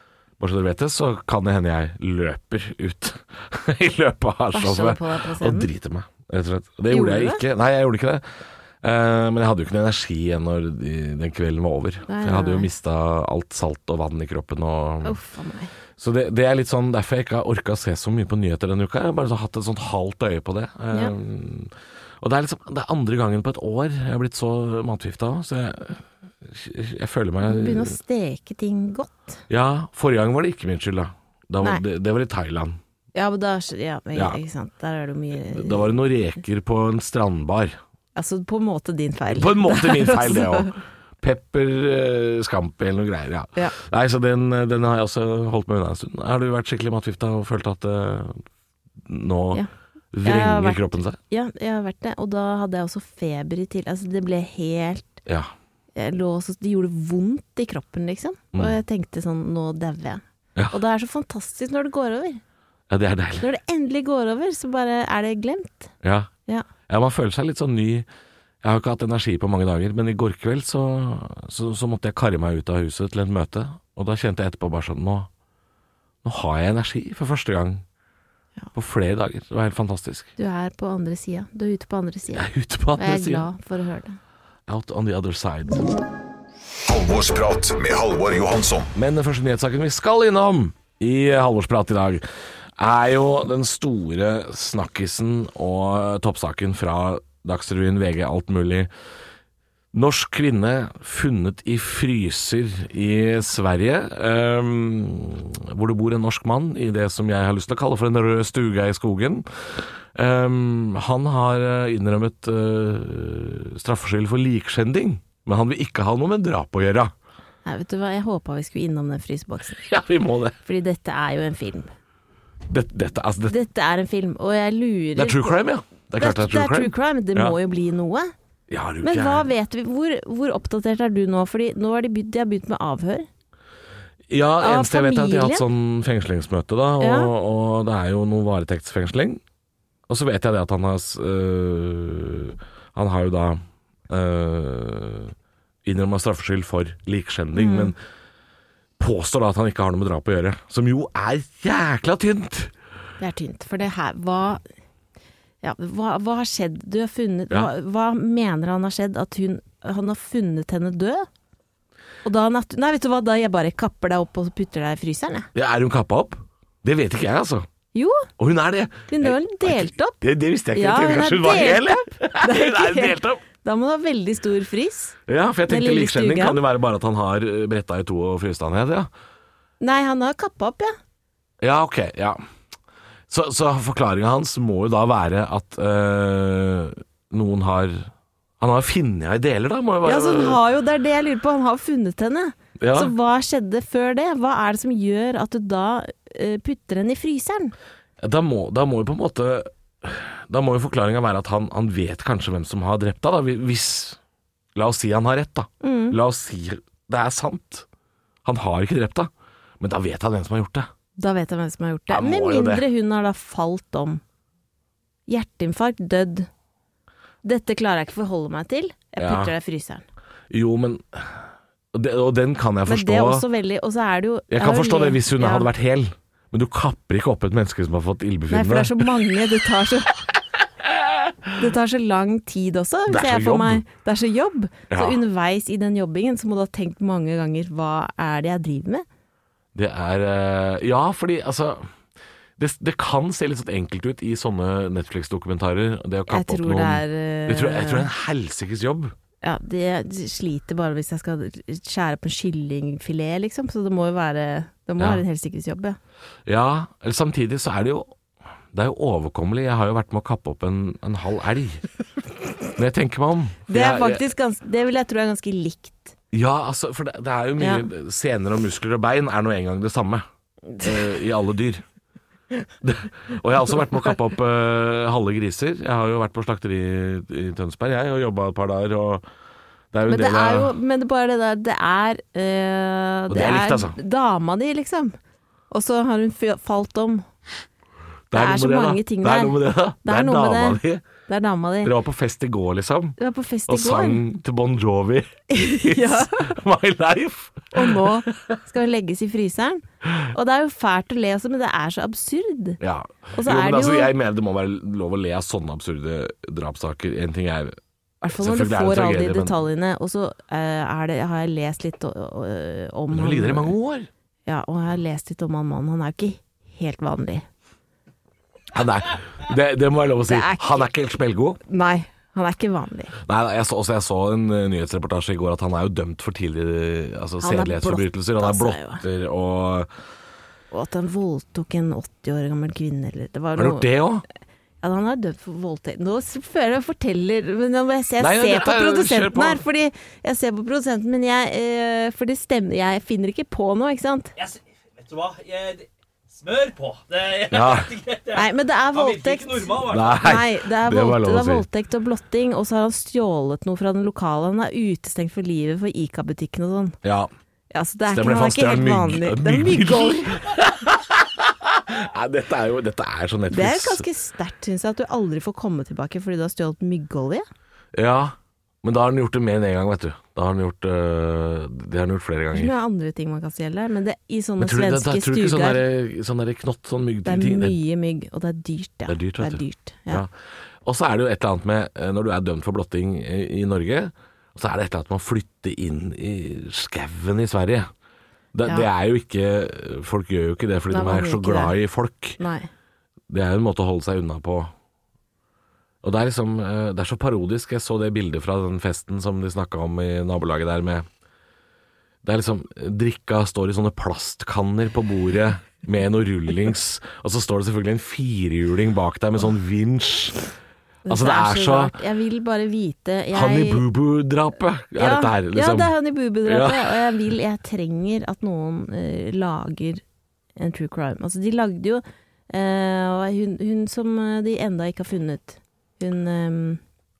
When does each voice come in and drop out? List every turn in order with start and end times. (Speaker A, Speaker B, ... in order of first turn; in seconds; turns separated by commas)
Speaker A: 0.4-8.2, Speaker B: 4.5-5.7, Speaker B: 6.9-7.4, Speaker A: 8.8-15.2, Speaker B: 12.1-12.7, Speaker B: 15.0-15.7, Speaker A: 16.0-27.9, Speaker B: 27.4-29.4, Speaker A: 29.5-32.8, Speaker B: 33.1-35.9, Speaker A: 35.5-37.8, Speaker B: 38.1-40.7, Speaker A: 39.3-48.4, Speaker A: 49.0-51.2, Speaker B: 50.2-55.2, Speaker B: 56.0-62.4, Speaker A: 62.9-63.5, Speaker B: 63.4-65.9, Speaker A: 66.0-66.3, Speaker A: 66.9-68.1, Speaker A: 68.6-75.3, Speaker A: 76.2-77.8, Speaker A: 78.7-80.3, Speaker B: 80.4-84.2, Speaker A: 82.3-83.5, Speaker A: 84.7-85.9, Speaker C: 86.8-88.9, Speaker A: 88.9-92.2, Speaker A: 92.8-98.9, Speaker A: 99.9-109.5, Speaker A: 110.1-117.1, Speaker B: 117.6-119.8, Speaker A: 119.8-120.6, Speaker B: 120.6-121.9, Speaker A: 122.7-123.5, Speaker B: 123.5-125.5, Speaker A: 125.2-127.5, Speaker B: 126.2-128.3, Speaker A: 128.7-129.5, Speaker B: 129.0-133.3, Speaker A: 134.3-139.4, Speaker B: 134.6-135.7, Speaker B: 137.0-137.3, Speaker A: 140.1-147.9, Speaker B: 147.5-147.9, Speaker A: 149.0-152.7, Speaker B: 153.2-154.6, Speaker B: 155.6-161.3, Speaker B: 162.2-165.5, Speaker A: 165.5-167.7, Speaker B: 167.9-168.3, Speaker A: 168.4-173.4, Speaker B: 169.1-170.2, Speaker B: 170.7-175.2, Speaker A: 175.3-179.1, Speaker B: 175.7-176.6, Speaker B: 179.8-180.9, Speaker A: 181.6-182.4, Speaker A: 183.3-190.6, Speaker B: 190.0-197.7, Speaker A: 192.8-193.1, Speaker A: 198.2-204.2, Speaker A: 204.7-207.8, Speaker B: 205.8-206.2, Speaker A: 208.4-210.9, Speaker B: 211.2-214.2, Speaker A: 212.1-212.8, Speaker B: 215.3-216.5, Speaker B: 217.4-220.0, Speaker A: 219.2-219.5, Speaker A: 220.5-223.4, Speaker B: 222.9-225.7, Speaker A: 224.5-229.1, Speaker B: 228.5-230.1, Speaker B: 231.6-239.0, Speaker A: 233.1-233.8, Speaker A: 234.9-235.2, Speaker A: 239.7-241.8, Speaker A: 242.6-249.1, Speaker B: 246.3-248.1, Speaker B: 249.4-256.0, Speaker A: 256.4-258.1, Speaker A: 258.7-261.8, Speaker A: 262.8-264.2, Speaker B: 263.7-266.1, Speaker A: 266.3-270.2, Speaker B: 267.6-267.9, Speaker A: 270.8-271.8, Speaker A: 272.8-279.2, Speaker A: 279.9-280.7, Speaker B: 280.1-285.2, Speaker A: 283.3-283.9, Speaker B: 285.7-287.2, Speaker A: 288.3-291.0, Speaker B: 288.3-291.9, Speaker A: 291.8-298.5, Speaker B: 293.2-294.2, Speaker B: 295.5-296.5, Speaker B: 297.7-302.8, Speaker A: 302.8-307.8, Speaker B: 303.3-304.1, Speaker B: 308.2-313.7, Speaker A: 308.3-309.6, Speaker A: 313.1-314.1, Speaker B: 314.5-317.4, Speaker A: 318.7-321.6, Speaker B: 320.3-320.9, Speaker B: 321.7-323.1, Speaker A: 323.2-329.9, Speaker B: 327.4-329.0, Speaker B: 330.7-333.9, Speaker A: 333.6-334.2, Speaker B: 334.8-344.3, Speaker A: 338.2-339.6, Speaker D: 344.4-350.3, Speaker A: 347.5-347.9, Speaker B: 348.3-356.9, Speaker A: 349.8-351.6, Speaker A: 357.0-357.3, Speaker B: 357.7-360.4, Speaker A: 358.1-364.0, Speaker B: 363.5-367.4, Speaker A: 367.9-372.7, Speaker B: 372.5-375.8, Speaker A: 374.6-377.8, Speaker B: 377.2-380.2, Speaker A: 379.1-380.3, Speaker A: 380.8-387.9, Speaker A: 388.5-392.4, Speaker B: 390.9-391.7, Speaker B: 392.4-392.7, Speaker A: 393.3-394.7, Speaker A: 396.0-401.1, Speaker A: 402.2-410.5, Speaker B: 411.1-413.8, Speaker A: 411.1-411.9, Speaker A: 413.3-415.9, Speaker B: 415.0-420.0, Speaker A: 416.4-417.1, Speaker B: 420.6-426.8